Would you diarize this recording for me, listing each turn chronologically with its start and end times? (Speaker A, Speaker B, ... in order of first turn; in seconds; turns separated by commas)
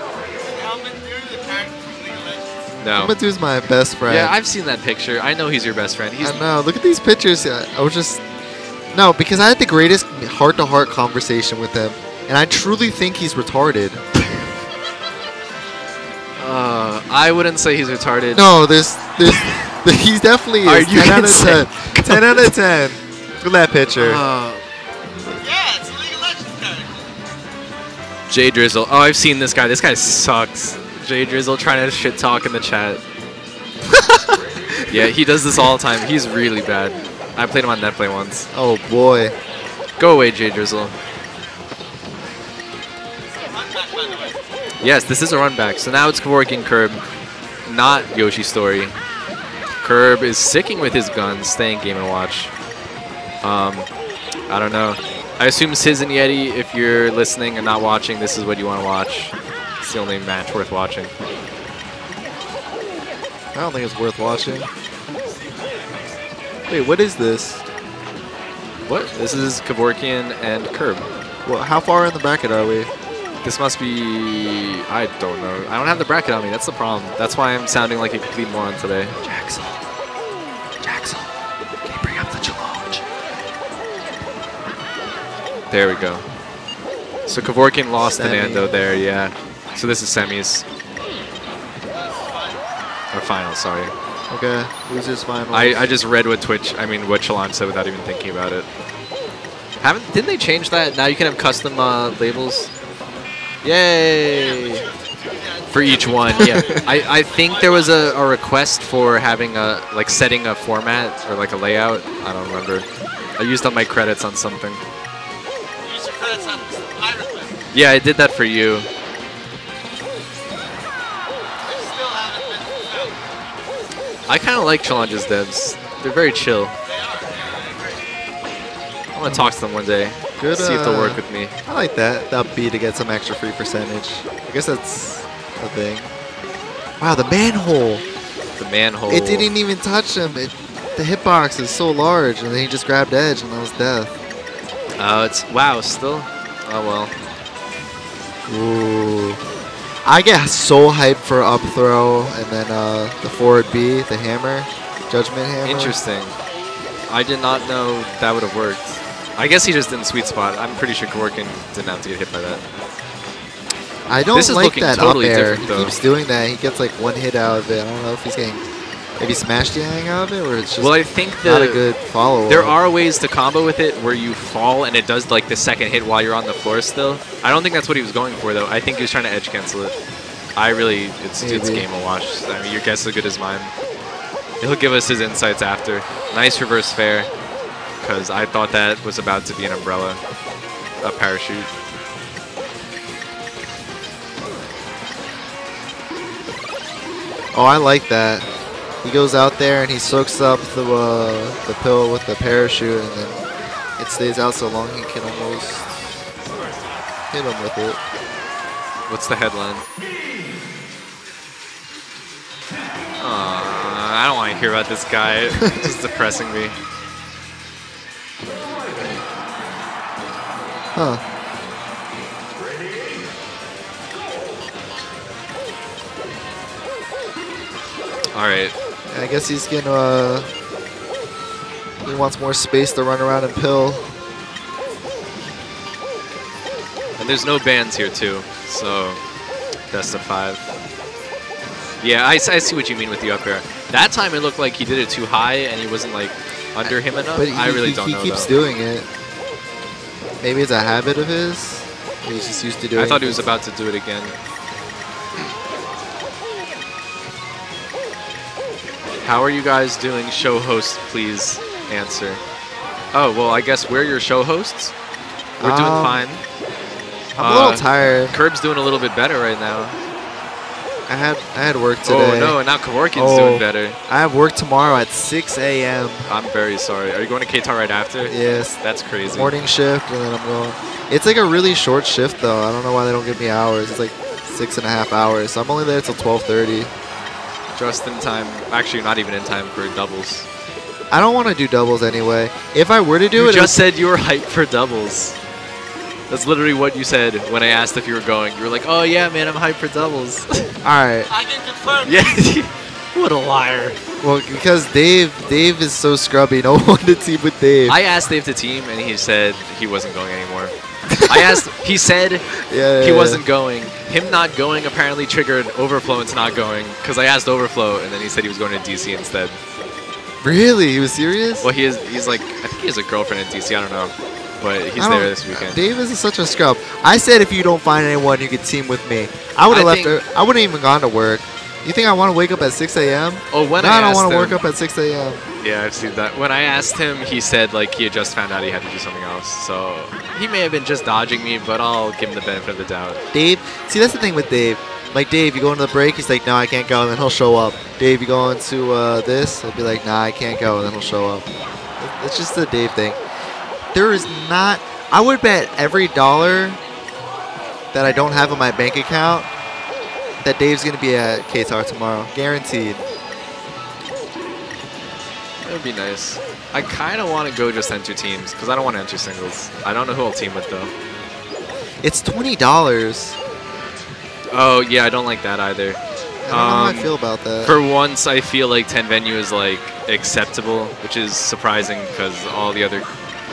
Speaker A: 0.3-2.5, Speaker B: 2.8-3.1, Speaker C: 2.9-4.3, Speaker B: 4.1-6.4, Speaker C: 6.2-8.2, Speaker C: 8.9-14.0, Speaker B: 16.4-18.5, Speaker C: 18.3-24.2, Speaker B: 20.6-22.5, Speaker B: 23.9-24.6, Speaker A: 25.4-27.0, Speaker B: 28.3-33.0, Speaker C: 33.9-35.1, Speaker B: 34.9-38.5, Speaker C: 38.5-39.3, Speaker B: 40.0-40.9, Speaker A: 43.4-44.4, Speaker B: 44.8-47.0, Speaker B: 47.6-49.0, Speaker B: 49.8-52.5, Speaker B: 53.4-53.9, Speaker B: 54.5-61.1, Speaker C: 63.5-64.7, Speaker C: 66.7-67.6, Speaker B: 68.9-71.1, Speaker C: 71.4-72.9, Speaker B: 73.4-79.8, Speaker B: 80.8-81.3, Speaker B: 81.8-83.0, Speaker B: 85.7-86.2, Speaker B: 87.3-90.6, Speaker C: 88.0-88.9, Speaker B: 93.1-93.9, Speaker C: 94.3-96.0, Speaker B: 95.5-98.7, Speaker B: 99.8-102.7, Speaker B: 103.6-104.8, Speaker A: 105.3-107.7, Speaker B: 105.7-112.8, Speaker C: 106.3-106.9, Speaker B: 113.4-114.8, Speaker A: 115.8-117.5, Speaker B: 117.7-118.9, Speaker A: 121.6-123.2, Speaker B: 124.3-126.7, Speaker A: 126.9-127.8, Speaker B: 129.1-131.5, Speaker C: 129.2-129.5, Speaker C: 130.4-136.1, Speaker C: 137.0-138.0, Speaker B: 138.6-139.5, Speaker C: 139.1-144.1, Speaker B: 145.0-147.1, Speaker C: 148.5-149.4, Speaker C: 150.0-155.9, Speaker B: 155.6-156.3, Speaker B: 157.1-162.6, Speaker C: 164.1-168.6, Speaker B: 164.3-165.9, Speaker C: 169.2-172.7, Speaker B: 170.8-171.9, Speaker B: 172.5-179.9, Speaker B: 180.6-183.7, Speaker C: 181.4-181.9, Speaker B: 184.6-187.3, Speaker B: 188.0-190.2, Speaker B: 191.0-191.7, Speaker C: 197.5-198.4, Speaker C: 199.0-203.4, Speaker C: 204.0-205.9, Speaker C: 207.3-208.0, Speaker B: 209.1-209.8, Speaker B: 213.2-216.8, Speaker C: 215.6-215.9, Speaker C: 220.9-221.2, Speaker B: 228.3-228.7, Speaker C: 229.1-230.5, Speaker C: 232.0-234.1, Speaker B: 237.2-239.2, Speaker B: 239.9-240.6, Speaker B: 242.0-248.5, Speaker C: 246.8-249.1, Speaker C: 250.4-253.5, Speaker B: 252.9-254.4, Speaker B: 259.2-262.4, Speaker B: 263.1-264.9, Speaker B: 265.6-266.4, Speaker C: 265.6-266.2, Speaker C: 267.4-268.4, Speaker B: 267.4-270.0, Speaker C: 271.1-272.6, Speaker B: 272.0-274.0, Speaker C: 273.1-276.3, Speaker B: 276.3-279.6, Speaker C: 278.3-286.9, Speaker B: 287.7-290.5, Speaker C: 291.1-293.8, Speaker B: 293.3-295.4, Speaker B: 296.3-300.7, Speaker C: 300.8-301.3, Speaker A: 301.3-302.4, Speaker B: 302.0-304.0, Speaker C: 304.2-307.9, Speaker B: 307.9-310.7, Speaker C: 311.1-311.6, Speaker B: 311.2-312.4, Speaker C: 312.7-313.4, Speaker B: 313.0-319.6, Speaker C: 320.4-321.7, Speaker B: 321.6-325.8, Speaker C: 325.0-335.4, Speaker B: 329.7-330.2, Speaker B: 333.5-334.6, Speaker B: 335.6-343.2, Speaker C: 343.3-353.2, Speaker C: 353.9-356.8, Speaker C: 357.9-359.5, Speaker C: 360.4-363.0, Speaker B: 365.6-370.9, Speaker C: 372.0-373.4, Speaker B: 374.5-377.1, Speaker C: 376.4-377.8, Speaker B: 377.6-383.1